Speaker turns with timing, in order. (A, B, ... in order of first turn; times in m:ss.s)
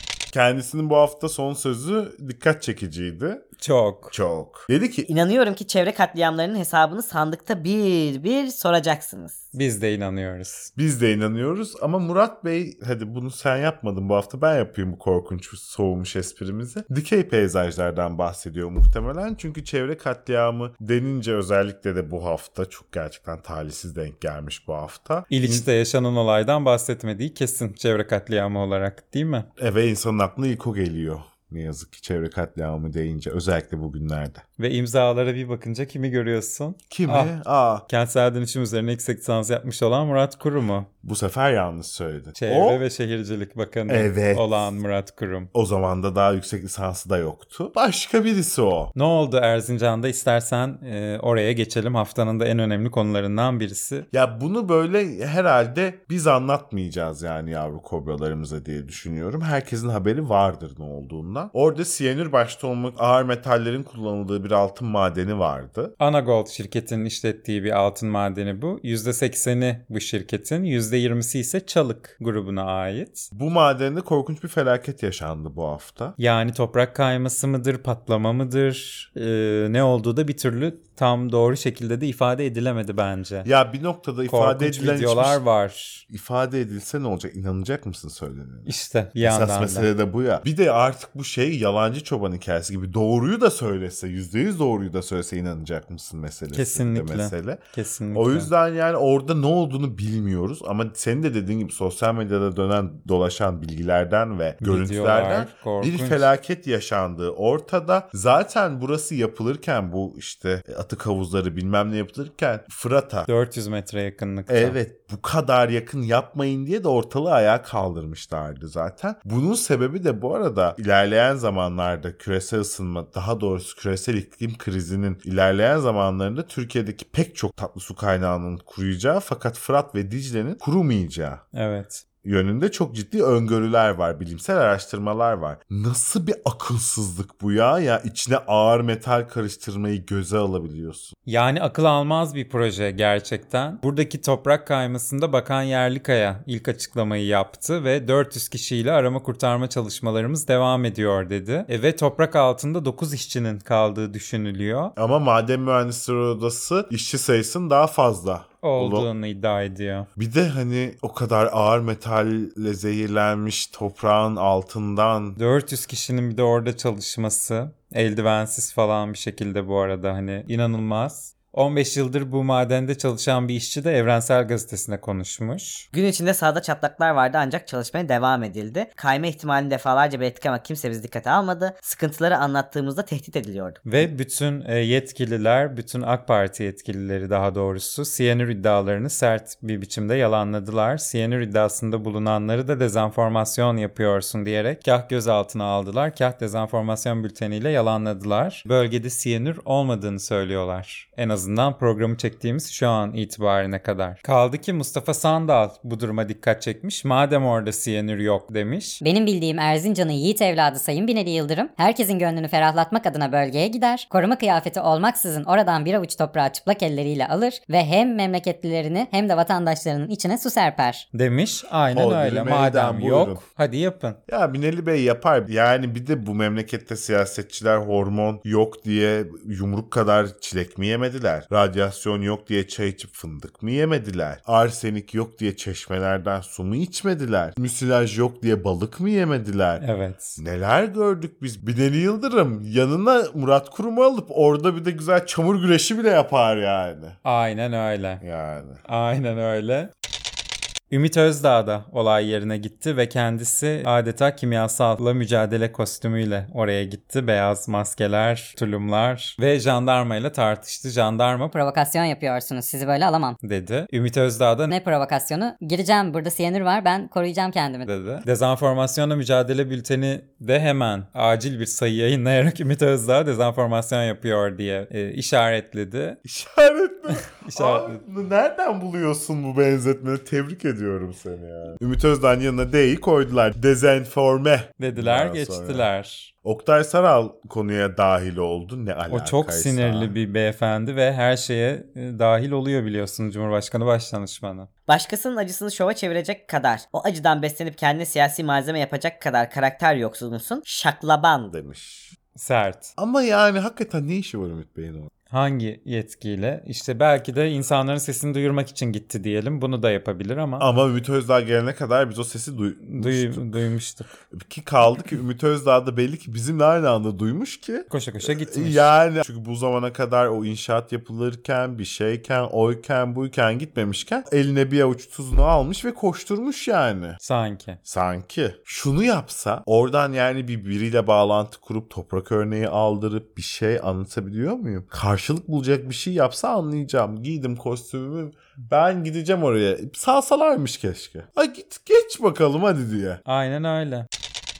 0:00.3-0:03.5 A
0:03.6-0:04.2 B
0:04.1-0:05.1 A
0:05.1-0:09.4 C
0:09.5-0:10.7 B
0:10.8-0:25.7 A
0:25.3-0:29.5 B
0:29.6-0:34.4 A
0:34.6-0:37.4 B
0:36.9-0:37.9 A
0:37.9-0:40.9 B
0:41.0-0:42.8 A
0:42.4-0:45.5 B
0:43.9-0:44.7 A
0:45.5-0:48.9 A
0:49.0-0:54.1 B
0:54.1-1:05.9 A
1:06.0-1:13.3 B
1:13.3-1:16.2 A
1:16.2-1:23.5 B
1:23.4-1:25.4 A
1:24.3-1:26.0 B
1:26.1-1:37.6 A
1:28.7-1:29.9 B
1:36.5-1:38.5 B
1:38.1-1:53.3 A
1:44.6-1:46.3 B
1:53.3-1:54.8 B
1:54.5-2:11.4 A
2:11.5-2:12.0 B
2:12.2-2:21.2 A
2:21.3-2:35.0 B
2:35.0-2:39.1 A
2:38.6-2:40.1 B
2:40.2-2:45.4 A
2:45.4-2:55.9 B
2:55.9-3:04.0 C
3:03.8-3:29.0 B
3:29.0-3:41.1 D
3:41.1-3:44.2 B
3:41.9-3:43.4 A
3:44.3-3:59.8 A
3:59.8-4:00.4 B
4:00.4-4:07.2 A
4:07.2-4:08.2 B
4:08.2-4:08.8 A
4:08.9-4:09.9 B
4:10.9-4:21.6 B
4:21.6-4:23.4 D
4:23.4-4:24.7 B
4:24.7-4:27.9 D
4:27.8-4:36.2 B
4:36.2-4:45.9 A
4:37.2-4:38.0 B
4:44.8-4:46.3 B
4:46.4-4:50.2 A
4:49.1-4:54.7 B
4:54.9-5:01.5 C
5:01.5-5:02.2 A
5:02.4-5:02.9 B
5:03.0-5:05.1 A
5:05.3-5:10.7 B
5:10.6-5:13.7 A
5:12.8-5:14.1 B
5:14.3-5:27.2 A
5:17.9-5:18.9 B
5:27.2-5:27.8 B
5:27.8-5:43.2 A
5:43.3-5:44.1 B